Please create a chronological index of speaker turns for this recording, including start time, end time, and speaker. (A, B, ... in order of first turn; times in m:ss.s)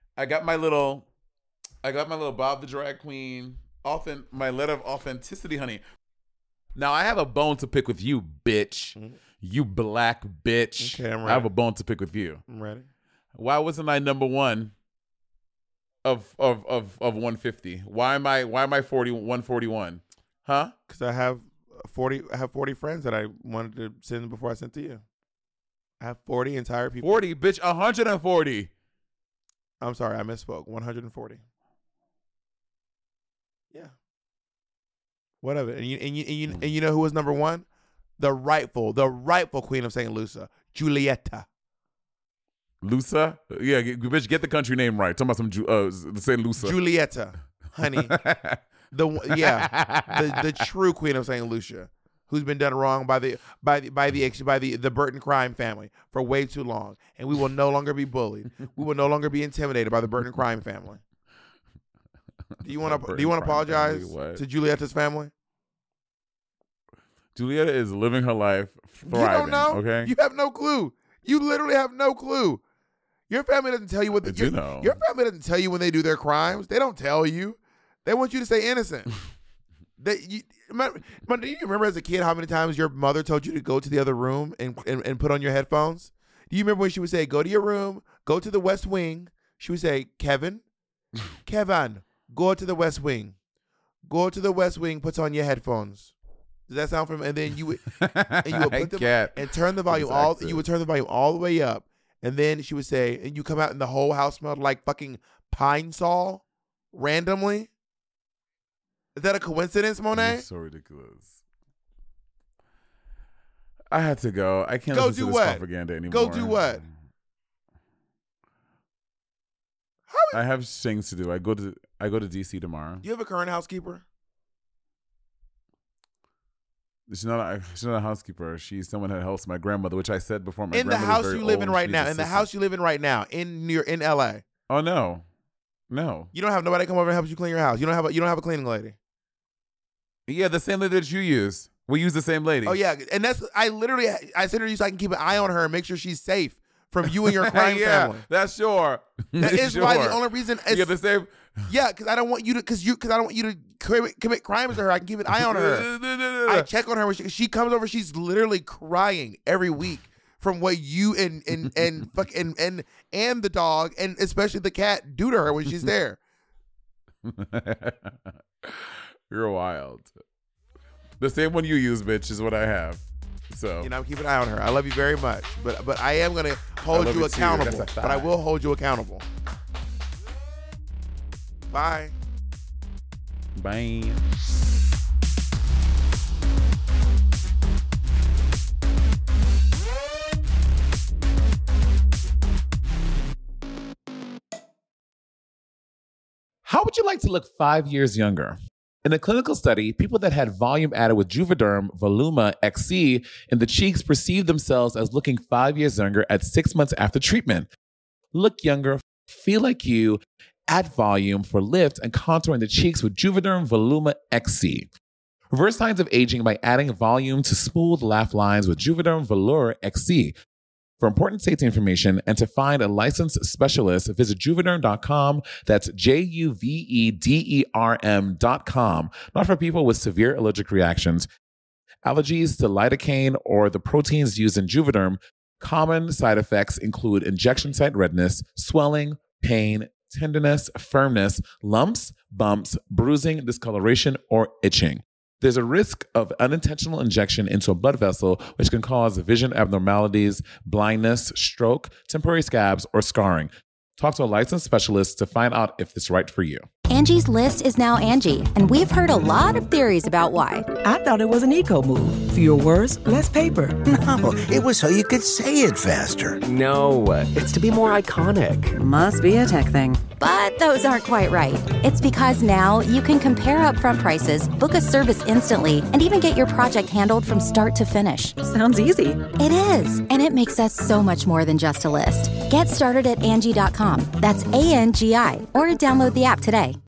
0:00.2-0:01.0 A
0:01.8-0:05.8 A
0:06.8-0:12.4 A
0:10.8-0:11.5 B
0:12.5-0:12.9 B
0:13.3-0:14.7 A
0:16.0-0:20.7 A
0:20.9-0:25.0 B
0:26.0-0:27.2 B
0:27.0-0:28.7 A
0:29.8-0:31.4 B
0:35.4-0:37.6 B
0:38.2-0:41.4 B
0:42.8-0:46.8 A
0:46.6-0:48.1 B
0:47.9-0:48.6 A
0:48.9-1:01.0 B
0:49.3-0:50.4 A
1:02.6-1:05.3 B
1:02.8-1:04.4 A
1:07.4-1:10.1 A
1:09.1-1:12.6 B
1:13.3-1:19.1 B
1:14.2-1:15.0 A
1:20.0-1:30.6 B
1:31.4-1:33.3 B
1:34.0-1:36.1 B
1:36.7-1:47.7 B
1:37.9-1:40.6 A
1:49.2-1:50.4 B
1:50.1-1:51.4 A
1:53.9-1:56.9 A
1:54.9-1:56.8 B
2:00.1-2:00.4 B
2:00.3-2:03.0 A
2:03.0-2:04.0 B
2:07.1-2:12.5 A
2:10.7-2:14.4 B
2:14.7-2:15.2 A
2:15.9-2:16.3 A
2:16.3-2:19.0 B
2:20.3-2:22.8 A
2:22.6-2:28.2 B
2:27.1-2:31.7 A
2:29.4-2:30.9 B
2:31.7-2:35.9 B
2:35.3-2:36.7 A
2:36.5-2:46.2 B
2:47.2-2:50.1 A
2:51.2-2:53.9 A
2:53.8-2:59.2 B
2:56.9-2:58.3 A
3:01.7-3:02.1 B
3:03.6-3:04.2 A
3:16.6-3:27.7 A
3:28.3-3:34.9 A
3:35.5-3:40.3 A
3:41.0-3:51.3 A
3:52.0-4:16.7 A
4:16.9-4:20.7 C
4:20.8-4:23.8 D
4:23.8-4:26.4 E
4:26.4-4:28.7 F
4:28.7-4:30.0 G
4:30.2-4:38.4 C
4:38.4-4:39.2 G
4:39.4-4:46.8 C